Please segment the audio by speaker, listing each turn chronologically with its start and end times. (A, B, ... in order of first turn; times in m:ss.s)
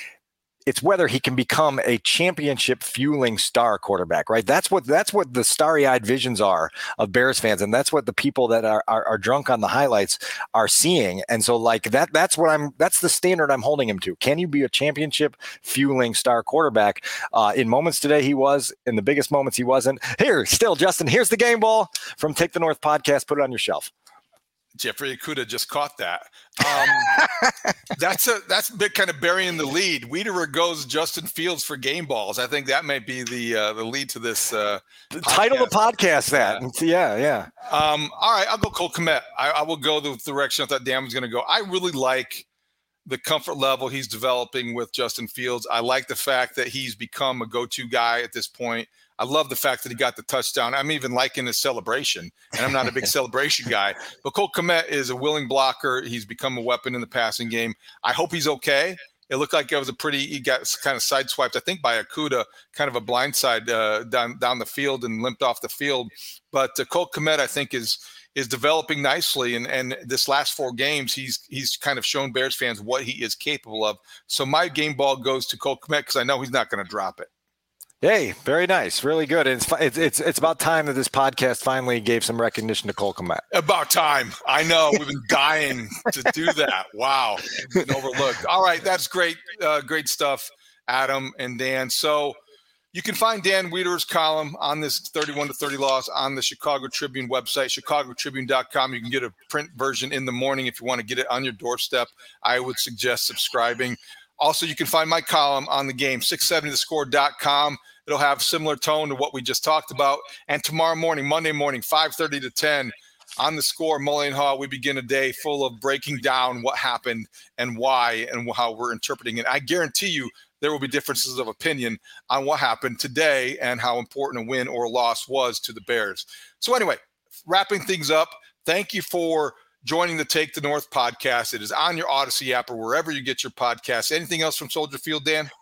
0:00.6-0:23.9 A
0:24.8-0:27.1 B
0:26.6-0:27.7 A
0:27.9-0:35.7 B
0:35.1-0:37.5 A
0:36.4-0:36.6 B
0:37.6-0:42.4 B
0:43.0-1:17.3 B
1:18.0-1:23.4 A
1:23.5-1:32.4 B
1:32.9-2:15.5 B